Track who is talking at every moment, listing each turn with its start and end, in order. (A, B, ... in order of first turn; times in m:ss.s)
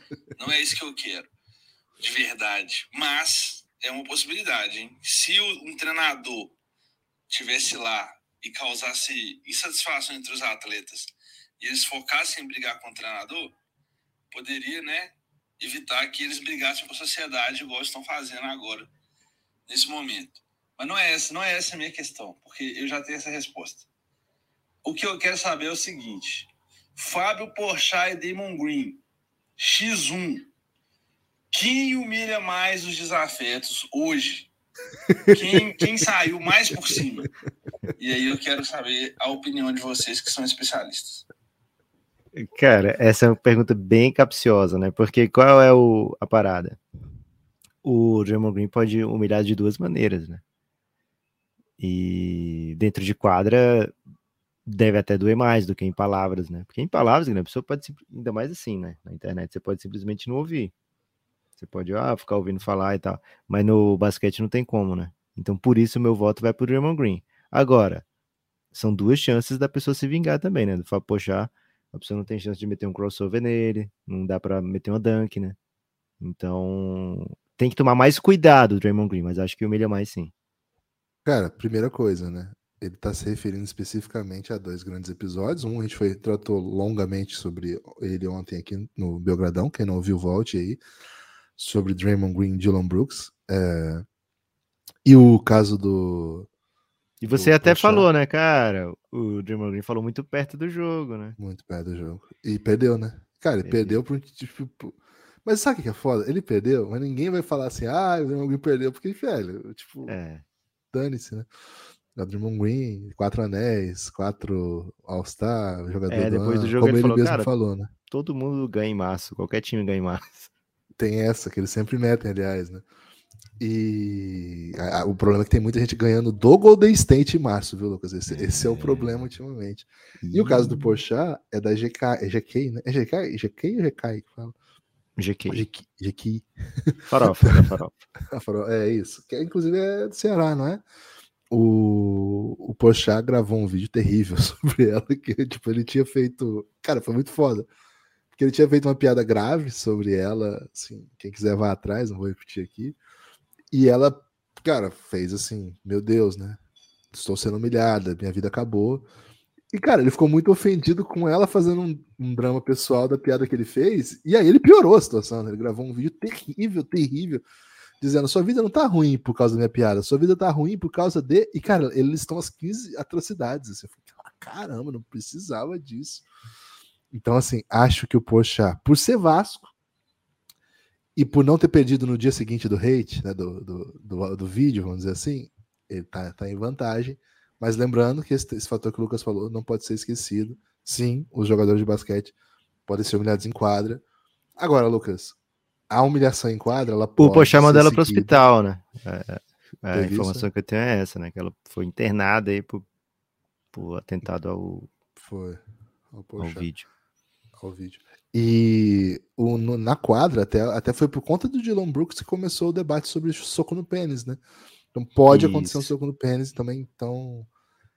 0:00.4-0:01.3 A
0:02.0-0:06.5 A
0:07.3-0:13.5 A
0:14.3-0:18.9 A
0:19.7-0:23.8 A
0:24.8-0:29.0 A
0:29.6-0:30.5 A
0:31.5-0:34.5 A
0:35.2-0:35.6 B
0:35.3-0:37.3 A
0:38.0-0:41.2 A
0:42.3-0:46.8 C
0:47.8-0:50.4 C
0:51.8-0:53.9 C
0:54.6-1:00.7 C
1:01.6-1:08.0 C
1:08.7-1:15.6 C
1:16.2-1:20.3 C
1:21.2-1:30.8 B
1:31.6-1:34.0 B
1:35.0-1:36.5 B
1:37.2-1:41.4 C
1:37.3-1:38.1 B
1:41.4-1:50.1 B
1:43.6-1:44.0 C
1:50.1-1:50.4 C
1:50.9-1:51.5 B
1:52.2-1:57.9 B
1:56.1-1:57.5 C
1:58.1-2:00.5 C
2:01.0-2:02.8 B
2:03.6-2:14.5 B
2:08.3-2:09.3 C
2:10.2-2:11.0 C
2:15.2-2:15.6 C
2:15.5-2:17.7 B
2:17.1-2:17.9 C
2:18.3-2:20.8 B
2:21.5-2:27.7 B
2:28.3-2:33.0 B
2:33.7-2:36.6 B
2:37.1-2:39.1 B
2:39.7-2:47.4 B
2:48.0-2:56.2 B
2:57.1-2:59.7 B
3:01.2-3:12.3 B
3:12.9-3:14.0 B
3:14.6-3:15.4 B
3:15.9-3:18.3 B
3:17.2-3:22.8 C
3:19.9-3:20.5 B
3:23.7-3:24.9 C
3:25.2-3:26.7 B
3:26.4-3:26.9 C
3:27.6-3:34.4 B
3:34.9-3:37.5 B
3:35.3-3:35.9 C